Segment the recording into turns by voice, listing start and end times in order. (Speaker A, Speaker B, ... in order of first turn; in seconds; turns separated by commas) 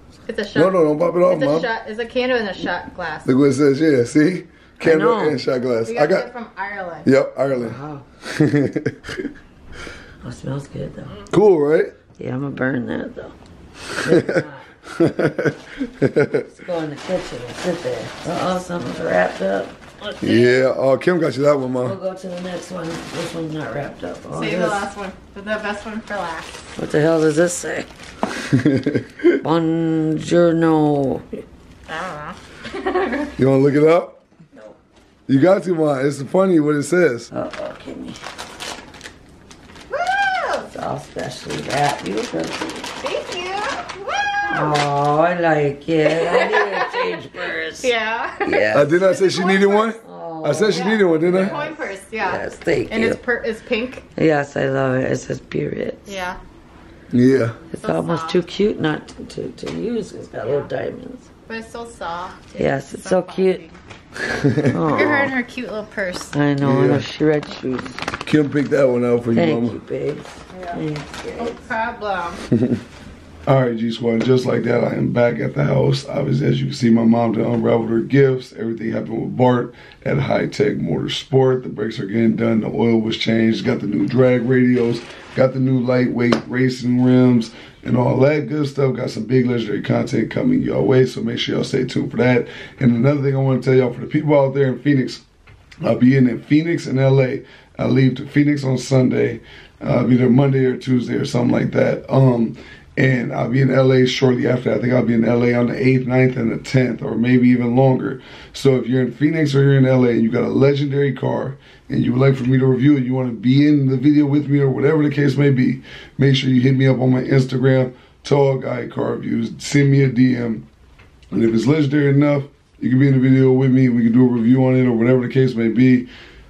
Speaker A: 0.3-3.3, Speaker B: 0.6-1.7, Speaker B: 3.2-6.3, Speaker C: 4.8-5.4, Speaker A: 5.8-7.1, Speaker B: 7.0-9.2, Speaker C: 7.5-8.1, Speaker C: 10.2-11.3, Speaker B: 11.3-11.9, Speaker C: 12.2-13.3, Speaker B: 13.9-16.5, Speaker C: 14.0-14.6, Speaker C: 16.5-20.6, Speaker B: 20.2-22.0, Speaker C: 21.8-24.9, Speaker A: 24.3-26.6, Speaker C: 26.8-27.9, Speaker B: 28.3-29.4, Speaker C: 29.4-31.4, Speaker A: 31.9-33.3, Speaker B: 33.4-34.2, Speaker B: 35.3-37.3, Speaker C: 37.3-38.2, Speaker A: 39.9-40.7, Speaker C: 40.7-42.9, Speaker A: 43.0-44.8, Speaker C: 44.5-47.9, Speaker A: 46.0-50.0, Speaker C: 48.4-49.0, Speaker B: 48.7-51.8, Speaker C: 50.0-53.2, Speaker A: 50.6-54.0, Speaker C: 54.2-56.3, Speaker A: 56.1-56.4, Speaker B: 57.1-57.6, Speaker C: 57.7-61.3, Speaker A: 57.7-58.5, Speaker A: 61.5-63.8, Speaker C: 62.6-63.6, Speaker B: 64.2-64.8, Speaker C: 64.7-65.3, Speaker A: 64.9-66.4, Speaker C: 66.3-68.0, Speaker B: 66.6-67.1, Speaker B: 68.2-69.8, Speaker C: 69.3-71.7, Speaker A: 70.5-70.8, Speaker A: 71.4-72.5, Speaker B: 72.5-72.8, Speaker B: 73.5-95.2, Speaker B: 95.8-120.7, Speaker B: 121.3-126.1